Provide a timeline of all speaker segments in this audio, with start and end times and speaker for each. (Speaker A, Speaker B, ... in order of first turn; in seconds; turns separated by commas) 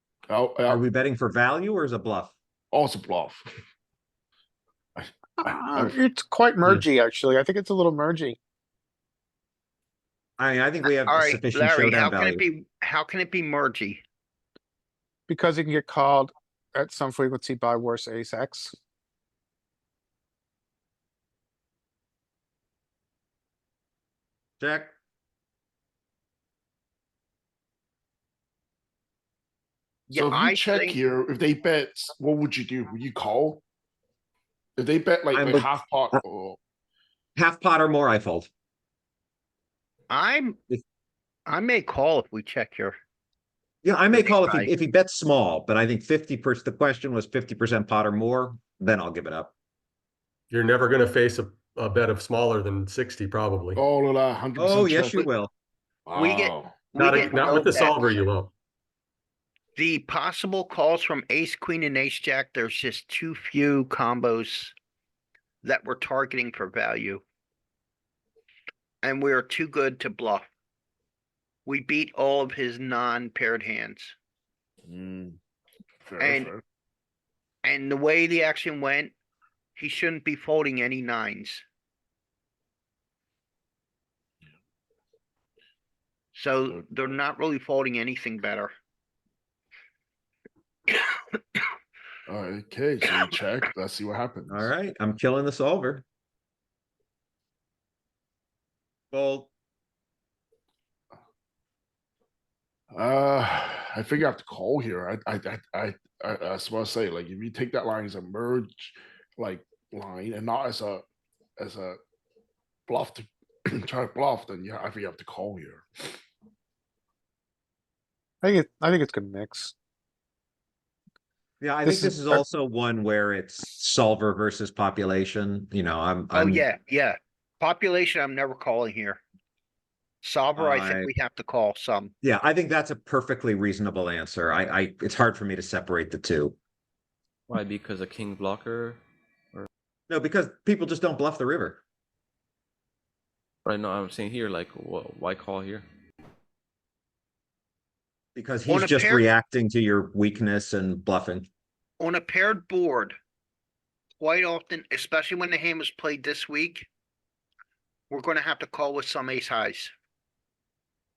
Speaker A: 0.3-0.8, Speaker B: 0.7-2.3, Speaker A: 2.7-3.4, Speaker A: 5.0-6.0, Speaker C: 5.4-8.4, Speaker B: 10.4-12.4, Speaker D: 10.9-14.0, Speaker C: 15.3-18.7, Speaker B: 24.6-24.9, Speaker D: 30.1-31.0, Speaker A: 30.1-33.6, Speaker A: 34.8-36.6, Speaker B: 35.3-36.2, Speaker B: 37.4-38.5, Speaker D: 40.1-40.6, Speaker D: 41.5-43.0, Speaker B: 43.8-49.5, Speaker D: 44.1-44.7, Speaker E: 50.5-53.8, Speaker A: 53.8-55.2, Speaker B: 54.5-55.5, Speaker A: 56.0-56.9, Speaker D: 56.1-58.2, Speaker E: 56.9-58.5, Speaker D: 59.8-64.7, Speaker D: 65.6-67.2, Speaker D: 69.0-70.5, Speaker D: 71.7-74.1, Speaker A: 74.8-75.4, Speaker A: 76.0-76.6, Speaker D: 76.2-76.5, Speaker D: 77.6-79.1, Speaker D: 79.8-81.6, Speaker D: 86.3-88.7, Speaker A: 92.3-94.7, Speaker B: 94.5-96.0, Speaker B: 99.1-99.5, Speaker A: 102.9-111.0, Speaker A: 111.6-112.0, Speaker A: 112.9-115.8, Speaker C: 118.4-119.7, Speaker B: 121.6-126.6, Speaker C: 121.8-122.4, Speaker D: 126.3-129.2, Speaker D: 130.2-132.1, Speaker B: 130.6-131.1, Speaker B: 132.2-136.6, Speaker F: 137.5-139.0, Speaker B: 140.1-141.8, Speaker F: 143.6-145.8, Speaker B: 148.3-151.5, Speaker D: 148.7-149.2, Speaker D: 152.0-153.2, Speaker D: 154.2-156.9, Speaker D: 158.1-159.9